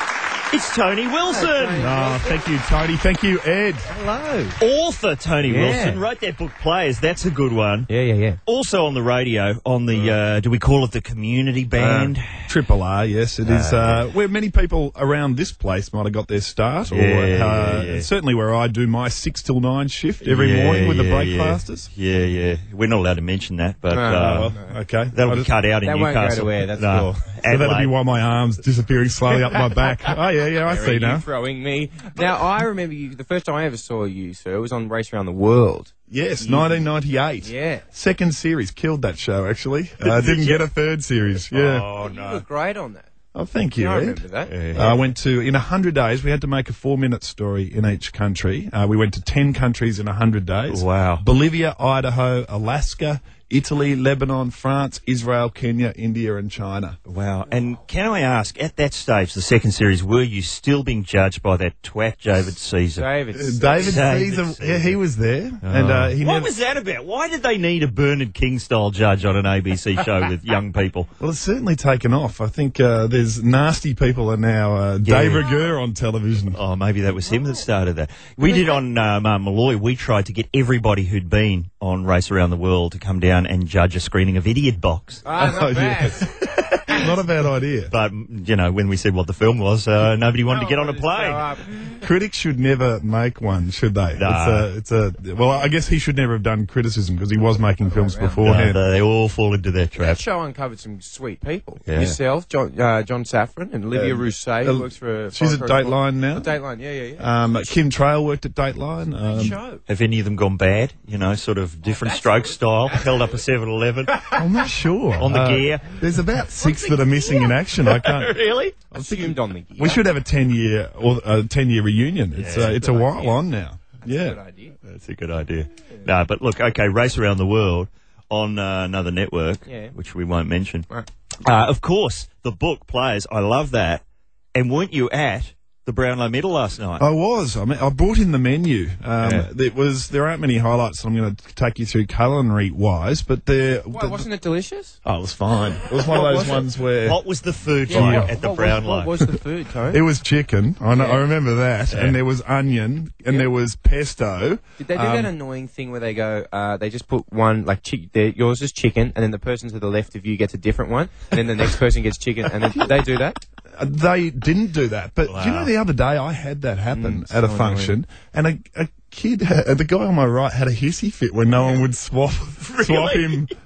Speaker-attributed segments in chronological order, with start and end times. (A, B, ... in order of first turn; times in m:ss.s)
0:00.5-0:01.9 A
0:01.2-0:02.4 B
0:01.8-0:03.9 C
0:03.9-0:04.6 B
0:04.6-0:07.9 A
0:05.5-0:06.0 B
0:07.9-0:08.4 B
0:08.5-0:12.5 A
0:11.8-0:21.9 C
0:13.4-0:14.0 A
0:16.9-0:18.1 A
0:20.2-0:24.6 A
0:23.9-0:24.7 B
0:24.2-0:25.5 C
0:25.1-0:27.9 A
0:25.8-0:27.2 B
0:27.4-0:31.2 C
0:30.7-0:36.8 B
0:36.1-0:41.9 C
0:37.4-0:37.8 B
0:40.0-0:40.6 A
0:41.5-0:42.4 A
0:41.9-0:43.1 B
0:43.4-0:57.0 C
0:43.8-0:45.0 B
0:44.5-0:44.9 A
0:50.7-0:51.2 A
0:57.1-1:03.1 A
1:03.0-1:04.0 B
1:03.3-1:06.5 C
1:03.8-1:05.0 A
1:05.6-1:11.1 A
1:11.2-1:16.6 C
1:15.0-1:15.4 A
1:16.5-1:25.2 A
1:25.2-1:27.0 B
1:25.4-1:27.9 C
1:27.9-1:31.5 A
1:30.5-1:32.0 B
1:32.0-1:38.8 C
1:34.2-1:34.7 A
1:37.8-1:38.4 B
1:38.4-1:40.2 A
1:40.0-1:47.7 B
1:41.9-1:42.2 A
1:43.9-1:46.6 C
1:47.2-1:49.6 C
1:49.3-1:49.8 B
1:49.9-1:54.3 A
1:51.8-1:53.2 B
1:54.3-2:04.4 C
1:55.2-1:56.0 A
1:58.1-1:58.8 A
1:58.9-2:00.0 B
2:02.4-2:02.8 A
2:02.5-2:03.4 B
2:04.0-2:04.7 B
2:04.9-2:10.9 A
2:09.7-2:09.9 B
2:11.4-2:14.0 A
2:14.6-2:17.0 A
2:17.0-2:24.2 C
2:19.2-2:19.5 A
2:23.9-2:25.0 B
2:25.0-2:27.2 C
2:26.1-2:29.3 A
2:27.9-2:30.0 B
2:27.9-2:28.3 C
2:29.9-2:35.3 C
2:30.9-2:31.2 B
2:31.9-2:32.2 A
2:34.8-2:43.4 B
2:43.8-2:53.5 C
2:45.3-2:45.7 A
2:46.9-2:48.0 B
2:52.6-2:53.5 A